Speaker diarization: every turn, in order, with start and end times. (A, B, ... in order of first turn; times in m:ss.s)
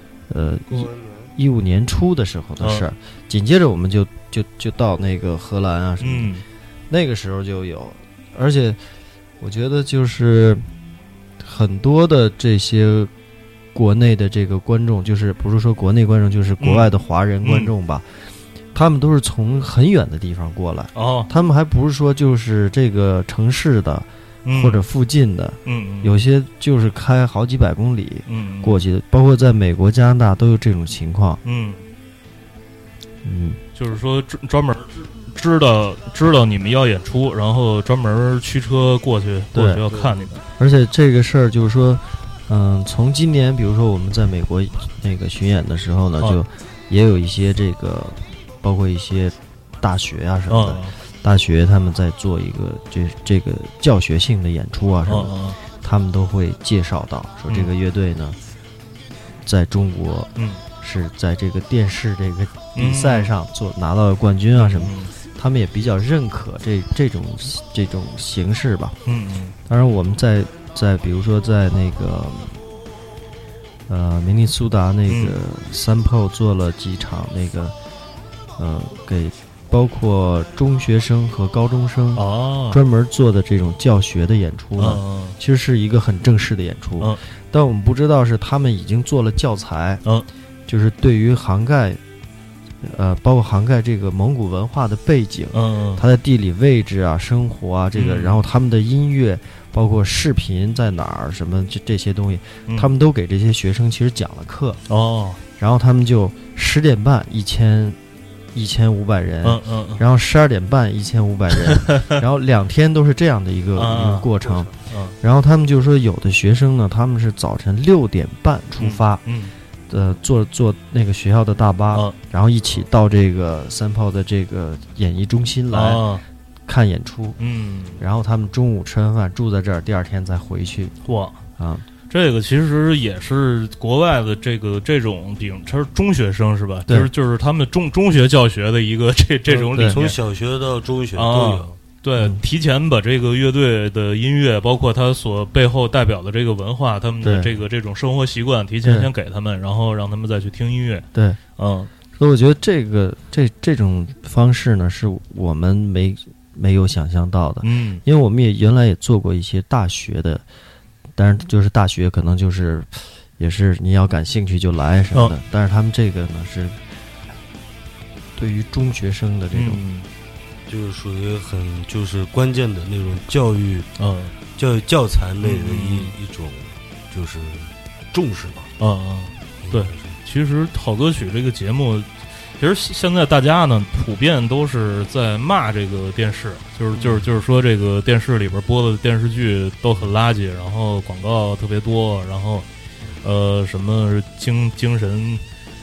0:00.3-0:06.3 A
0:00.7-0:01.3 B
0:02.6-0:02.9 C
0:06.0-0:06.4 C
0:06.9-0:08.8 A
0:09.4-0:10.6 A
0:11.4-0:13.1 A
0:13.7-0:18.1 A
0:16.6-0:16.9 C
0:17.4-0:17.7 C
0:18.7-0:31.4 A
0:21.0-0:21.3 C
0:24.4-0:24.9 C
0:25.7-0:26.2 C
0:28.3-0:28.8 C
0:31.4-0:31.9 C
0:33.2-0:33.6 A
0:33.8-0:40.4 C
0:39.5-0:39.8 A
0:39.9-0:40.3 B
0:40.6-0:58.4 A
0:50.5-0:51.0 C
0:55.1-0:55.6 C
0:59.4-1:09.0 A
1:00.4-1:00.6 C
1:02.8-1:03.3 C
1:04.6-1:05.1 C
1:09.1-1:09.6 C
1:09.7-1:12.6 A
1:13.9-1:17.8 A
1:15.1-1:15.4 C
1:18.6-1:30.0 A
1:22.2-1:22.8 C
1:24.8-1:25.4 C
1:30.7-1:32.0 A
1:32.8-1:44.8 A
1:35.5-1:36.0 C
1:37.9-1:38.4 C
1:44.9-1:45.4 C
1:45.6-1:48.0 A
1:48.5-1:59.2 A
1:49.4-1:50.0 C
1:51.6-1:52.2 C
1:53.8-1:54.3 C
1:54.4-1:54.7 B
1:54.9-1:55.2 C
1:58.8-1:59.5 C
1:59.9-2:06.1 A
2:05.7-2:06.2 C
2:06.7-2:07.4 A
2:07.4-2:08.0 C
2:08.0-2:11.0 A
2:11.1-2:11.4 C
2:11.6-2:11.9 A
2:12.1-2:20.2 C
2:19.5-2:21.8 B
2:19.7-2:20.0 A
2:21.1-2:31.9 C
2:27.2-2:27.5 A
2:28.8-2:29.1 A
2:31.1-2:31.4 A
2:32.2-2:40.4 A
2:37.6-2:38.0 C
2:41.2-2:46.9 A
2:48.4-2:49.8 A
2:49.5-2:50.1 C
2:50.7-2:53.9 B
2:54.0-2:54.3 C
2:54.6-2:58.7 B
2:55.4-2:56.1 C
2:58.8-3:12.7 C
2:59.6-3:00.2 B
3:13.2-3:15.4 C